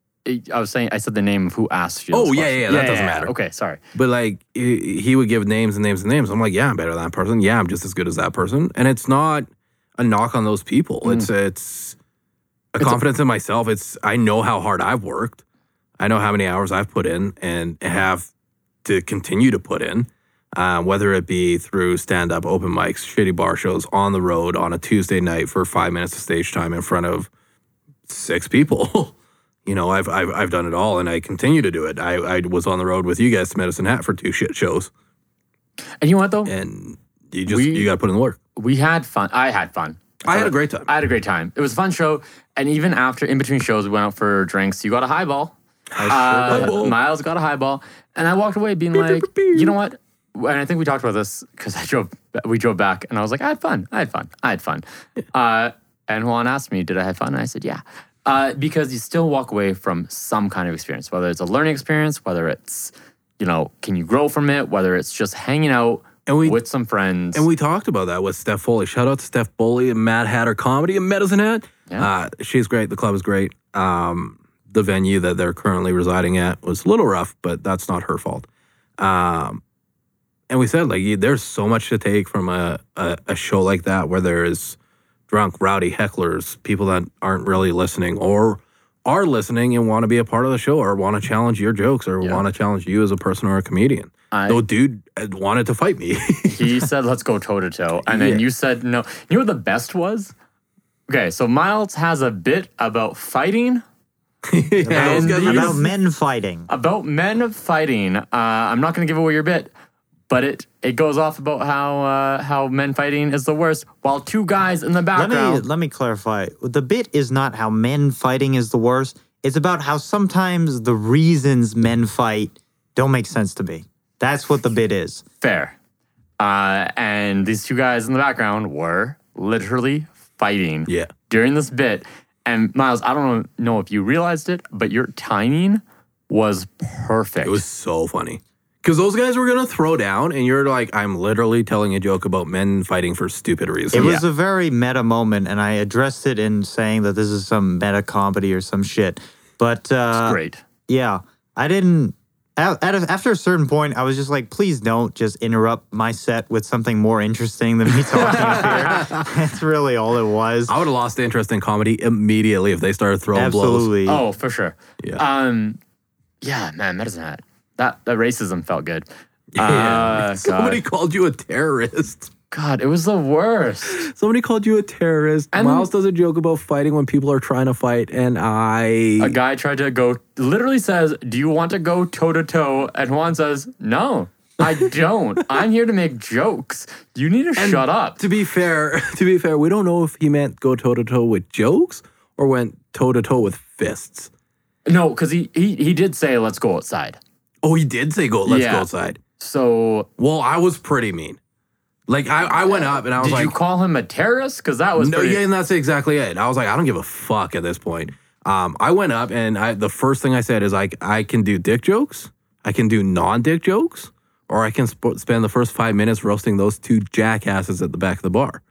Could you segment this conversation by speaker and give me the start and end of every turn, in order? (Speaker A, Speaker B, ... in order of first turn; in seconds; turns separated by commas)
Speaker A: 0.2-3.8, Speaker B: 2.1-3.3, Speaker B: 3.9-11.9, Speaker A: 11.0-11.3, Speaker B: 12.7-15.4, Speaker B: 16.0-18.3, Speaker B: 18.8-27.3, Speaker B: 28.1-29.1, Speaker B: 29.6-34.9, Speaker A: 36.0-36.5, Speaker B: 36.5-38.4, Speaker A: 37.5-37.9, Speaker A: 38.5-67.5, Speaker B: 40.2-40.9, Speaker B: 45.9-46.9, Speaker B: 48.9-49.7, Speaker B: 66.2-66.6, Speaker B: 67.3-78.5, Speaker B: 79.0-79.6, Speaker B: 80.5-84.8, Speaker B: 85.3-96.8, Speaker A: 94.3-94.6, Speaker A: 96.5-100.3, Speaker B: 98.0-98.4, Speaker A: 101.1-103.8, Speaker B: 104.5-105.8, Speaker C: 104.8-106.7, Speaker A: 104.9-105.8, Speaker A: 106.7-109.7, Speaker A: 110.3-115.6, Speaker C: 115.1-125.2, Speaker A: 125.4-125.7, Speaker A: 126.4-137.6, Speaker B: 137.4-144.1, Speaker C: 143.9-160.7, Speaker A: 143.9-144.2, Speaker A: 150.1-150.6, Speaker A: 158.2-159.1, Speaker B: 158.2-159.2, Speaker B: 160.7-163.9, Speaker C: 163.3-164.2, Speaker A: 164.1-165.8, Speaker A: 166.4-170.8, Speaker B: 169.5-172.3, Speaker A: 172.5-174.1, Speaker B: 173.9-179.4, Speaker A: 175.5-175.9, Speaker A: 179.2-188.2, Speaker B: 187.6-194.3, Speaker A: 194.8-197.2, Speaker B: 197.6-199.2, Speaker A: 198.4-198.9, Speaker A: 199.4-200.1, Speaker B: 200.2-201.4, Speaker B: 202.1-203.5, Speaker A: 202.7-205.4, Speaker B: 205.0-218.6